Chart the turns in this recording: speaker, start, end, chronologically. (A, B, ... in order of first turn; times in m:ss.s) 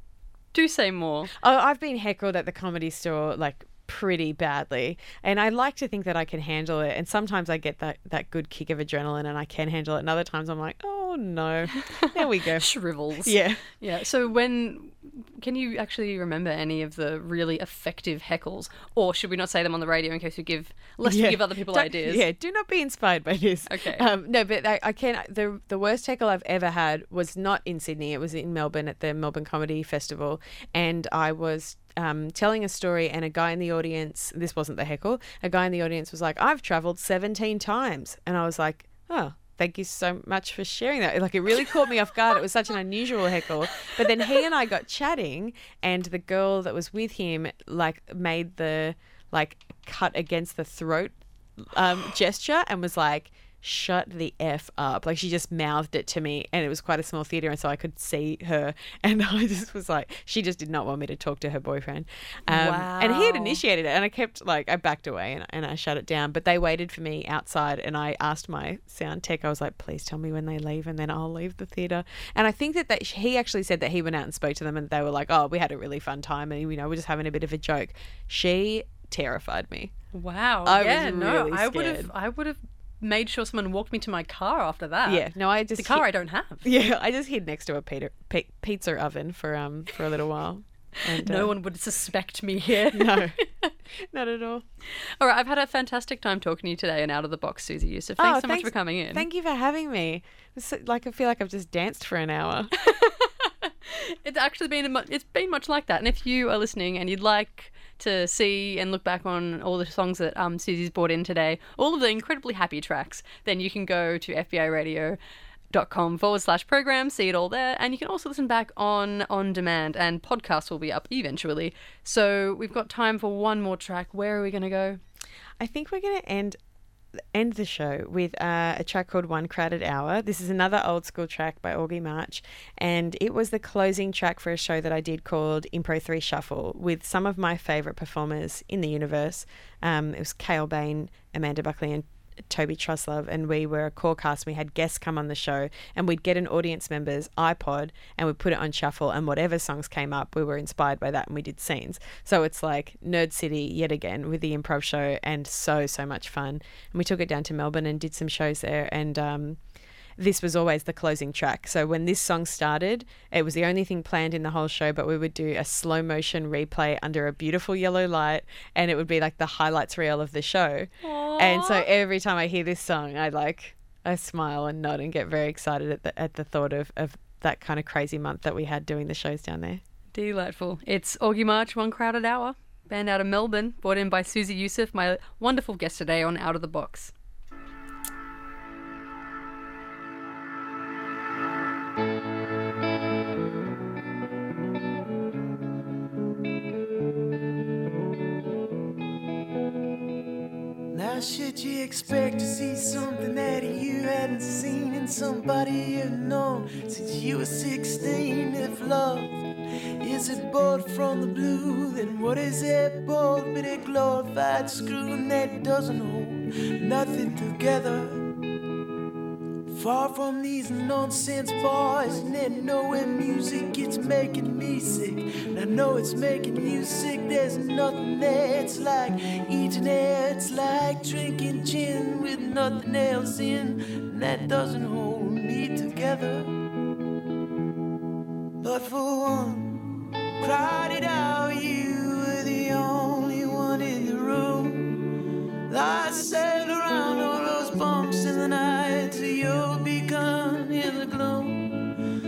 0:00.5-0:01.3 A
0:01.4-0:13.6 B
0:12.6-0:22.2 A
0:21.0-1:19.9 B
0:23.7-0:24.1 A
1:02.5-1:03.6 A
1:20.1-1:26.7 A
1:20.6-1:22.1 B
1:25.0-1:26.0 B
1:26.6-1:31.5 B
1:31.1-1:33.7 A
1:32.9-1:33.4 B
1:33.9-1:34.6 B
1:35.2-1:39.2 A
1:38.2-1:42.7 B
1:42.8-1:55.2 A
1:55.7-2:05.0 A
2:05.6-2:06.6 B
2:07.2-2:39.6 B
2:40.2-2:59.8 B
2:51.0-2:51.9 A
3:00.1-3:07.1 A
3:20.9-3:29.4 C
3:30.0-3:38.3 C
3:39.7-3:56.6 C
3:58.6-4:05.0 C
4:05.7-4:11.7 C